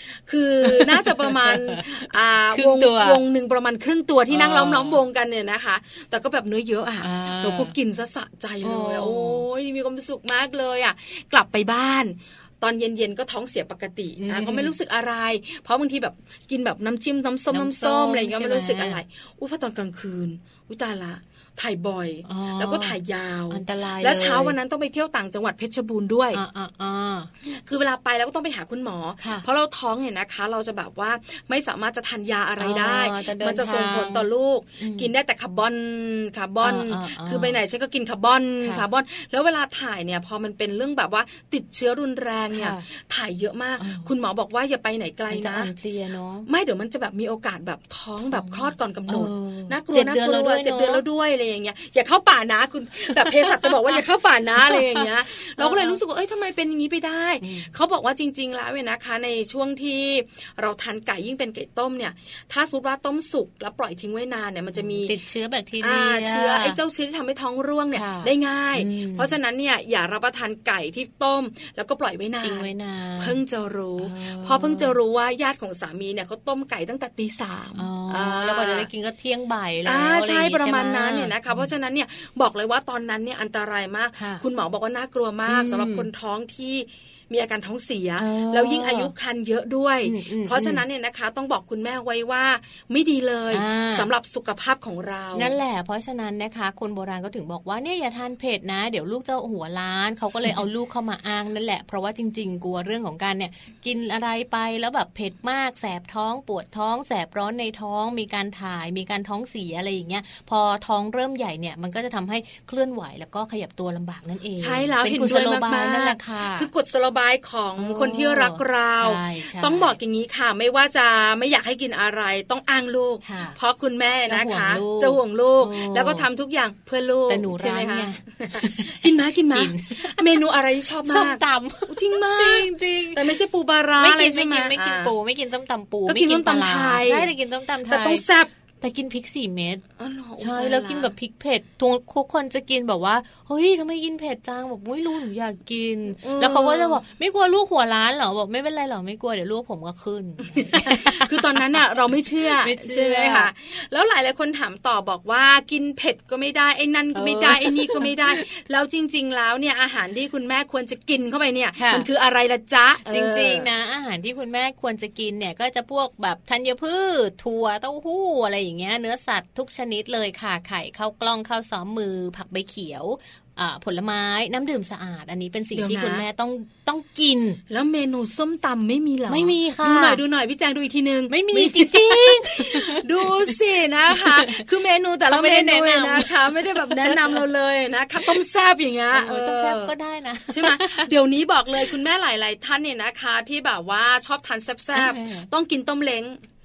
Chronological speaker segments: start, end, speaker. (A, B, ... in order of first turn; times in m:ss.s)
0:00.3-0:26.4 A
0:00.6-0:01.8 B
0:02.5-0:03.2 B
0:04.3-0:05.0 B
0:07.0-0:07.7 B
0:08.6-0:09.4 B
0:14.2-0:14.7 B
0:17.5-0:19.0 B
0:22.2-0:23.0 B
0:23.5-0:24.6 B
0:26.3-0:27.3 B
0:27.5-0:45.7 A
0:32.6-0:34.3 B
0:34.8-0:35.1 B
0:36.6-0:37.6 B
0:42.5-0:42.8 B
0:43.8-0:44.1 B
0:45.3-0:46.5 B
0:46.5-1:05.1 A
0:48.3-0:51.0 B
0:53.2-0:54.0 B
0:54.6-0:56.0 B
0:57.4-0:57.7 B
1:04.7-1:06.8 B
1:05.8-1:18.9 A
1:07.9-1:09.3 B
1:12.4-1:13.4 B
1:14.0-1:14.9 B
1:17.8-1:21.7 B
1:19.9-1:35.6 A
1:24.2-1:24.4 B
1:25.5-1:26.1 B
1:28.2-1:29.1 B
1:30.0-1:30.8 B
1:33.5-1:34.1 B
1:35.4-1:56.7 B
1:54.6-2:15.1 A
1:57.8-2:00.0 B
2:03.2-2:03.6 B
2:04.3-2:06.3 B
2:07.3-2:10.4 B
2:11.1-2:13.4 B
2:14.0-2:18.2 B
2:16.1-2:17.3 A
2:17.9-2:18.5 A
2:18.8-2:19.8 B
2:20.0-2:21.1 A
2:20.4-2:31.6 B
2:26.2-2:27.0 A
2:30.5-2:43.7 A
2:32.6-2:33.5 B
2:37.2-2:38.4 B
2:41.8-2:42.1 B
2:43.1-2:57.6 B
2:55.8-2:56.2 A
2:57.7-3:09.9 A
2:59.3-3:00.2 B
3:01.3-3:03.5 B
3:04.1-3:04.6 B
3:05.3-3:07.4 B
3:09.1-3:11.1 B
3:10.5-3:16.4 A
3:15.0-3:15.5 B